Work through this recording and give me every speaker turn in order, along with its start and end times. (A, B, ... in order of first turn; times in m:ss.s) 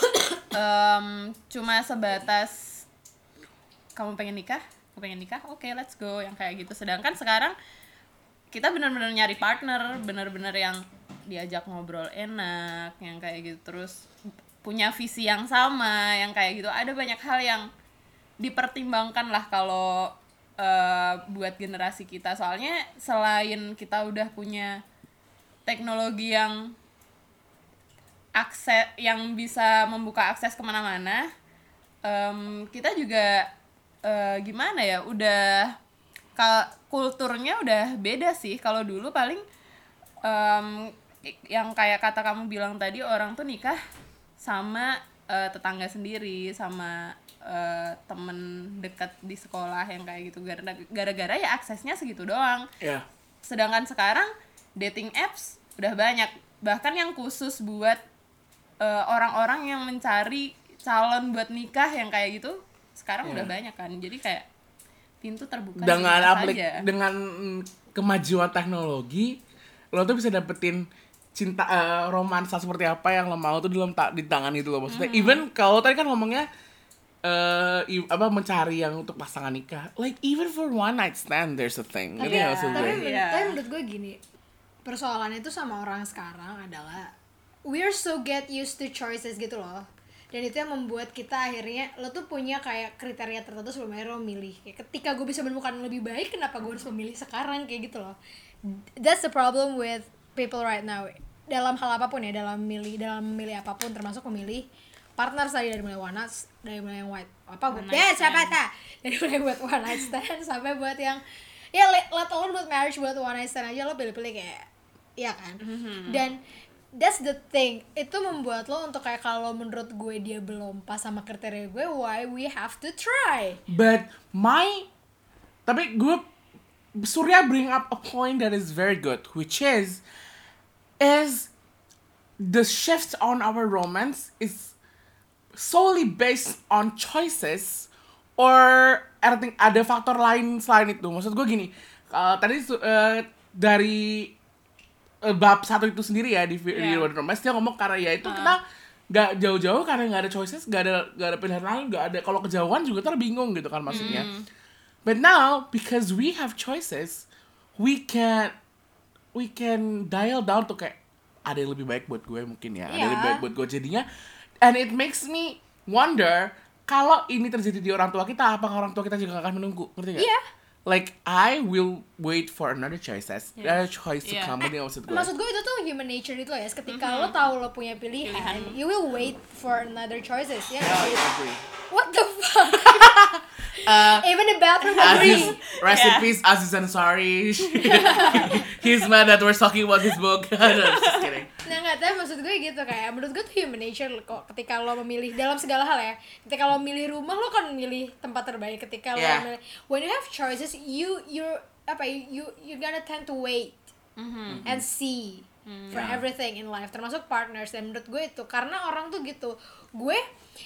0:00.5-0:02.8 A
0:04.0-0:07.5 A
0:08.5-0:14.0 A
0:14.6-0:17.7 A
0:18.4-0:24.8 A
0:25.6-0:26.7 A
0:28.4-0:31.3 A
0:32.0-0:33.5 A
0:34.0-0:35.8 A
0:36.4-0:39.4 A
0:40.2-0:43.8 A
0:44.4-0:52.6 A
0:52.8-0:53.0 B
0:53.4-0:58.0 A
0:58.8-1:04.4 A
1:03.2-1:03.5 B
1:05.2-1:06.8 A
1:05.8-1:09.4 B
1:09.9-1:16.5 B
1:14.9-1:15.4 A
1:17.2-1:23.0 B
1:22.2-1:24.2 C
1:22.2-1:23.5 A
1:24.8-1:27.1 C
1:27.7-1:38.2 C
1:38.7-1:44.7 C
1:45.2-1:51.2 C
1:47.7-1:48.5 A
1:51.7-1:56.4 C
1:55.6-1:56.2 A
1:57.0-2:03.6 C
2:03.7-2:04.9 B
2:05.6-2:06.2 B
2:07.0-2:10.0 B
2:11.0-2:11.5 B
2:12.4-2:14.7 B
2:15.5-2:24.3 B
2:25.2-2:34.3 B
2:26.7-2:27.0 A
2:28.2-2:28.6 A
2:33.9-2:34.4 A
2:35.0-2:37.2 B
2:37.8-2:38.5 B
2:39.3-2:44.0 B
2:42.9-2:43.4 C
2:44.6-2:50.3 B
2:50.2-2:50.4 C
2:50.8-2:55.3 B
2:53.6-2:54.6 A
2:55.1-3:05.6 C
2:56.9-2:57.3 A
2:58.2-2:58.8 A
3:00.8-3:01.6 B
3:02.7-3:04.3 B
3:04.9-3:06.3 A
3:05.0-3:11.5 B
3:07.7-3:09.1 A
3:07.9-3:08.7 C
3:10.6-3:11.4 A
3:11.6-3:23.9 C
3:19.2-3:19.4 B
3:24.2-3:24.6 A
3:24.5-3:24.8 B
3:24.6-3:30.2 C
3:25.7-3:26.0 A
3:25.9-3:26.2 B